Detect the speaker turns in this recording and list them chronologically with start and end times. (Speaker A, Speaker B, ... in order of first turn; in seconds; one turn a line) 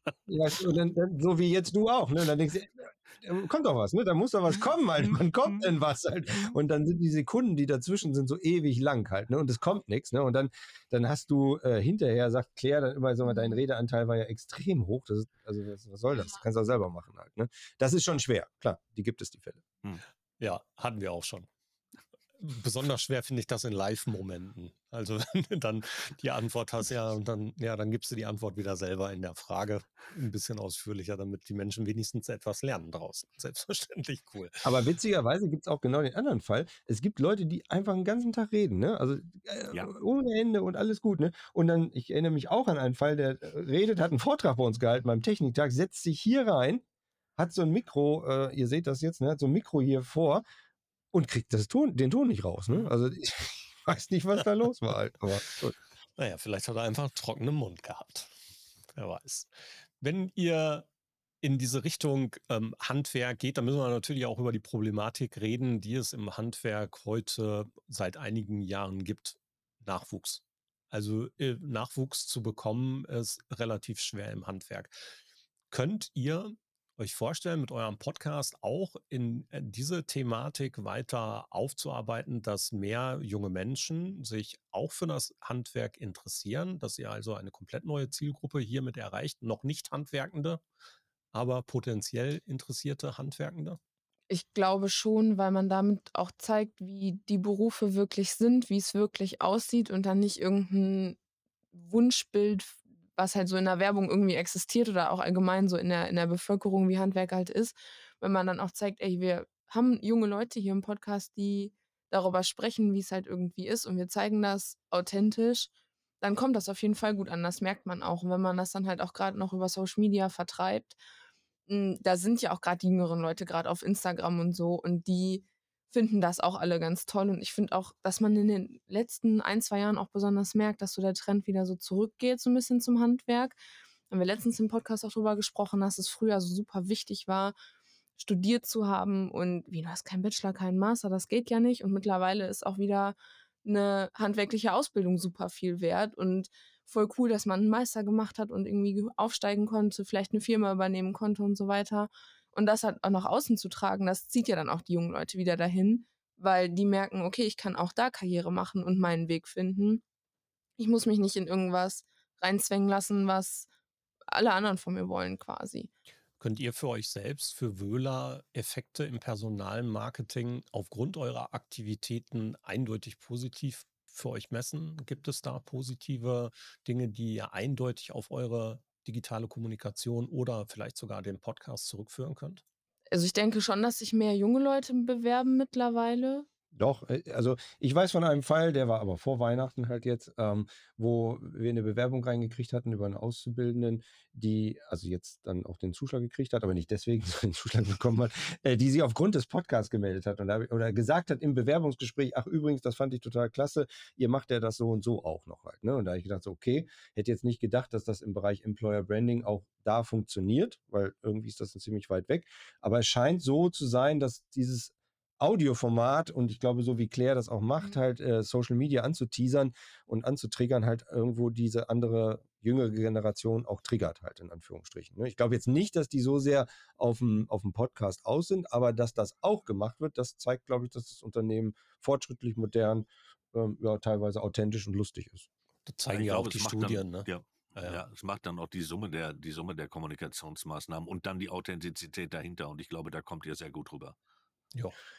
Speaker A: 0.3-19.6
Speaker B: 20.4-21.5
Speaker B: 22.4-34.7
Speaker A: 34.6-46.8
Speaker A: 47.4-50.4
Speaker A: 51.1-55.8
Speaker B: 56.2-58.3
Speaker B: 58.9-60.9
Speaker B: 61.4-75.0
Speaker B: 75.7-90.6
Speaker B: 91.3-93.8
Speaker C: 94.3-101.2
Speaker C: 101.7-121.0
Speaker C: 121.7-133.6
Speaker C: 134.1-137.5
Speaker C: 138.2-160.0
Speaker C: 160.8-163.7
Speaker C: 164.3-165.9
Speaker B: 166.4-182.6
Speaker C: 183.1-186.5
Speaker A: 186.7-235.5
Speaker B: 235.8-238.0
Speaker D: 236.1-244.2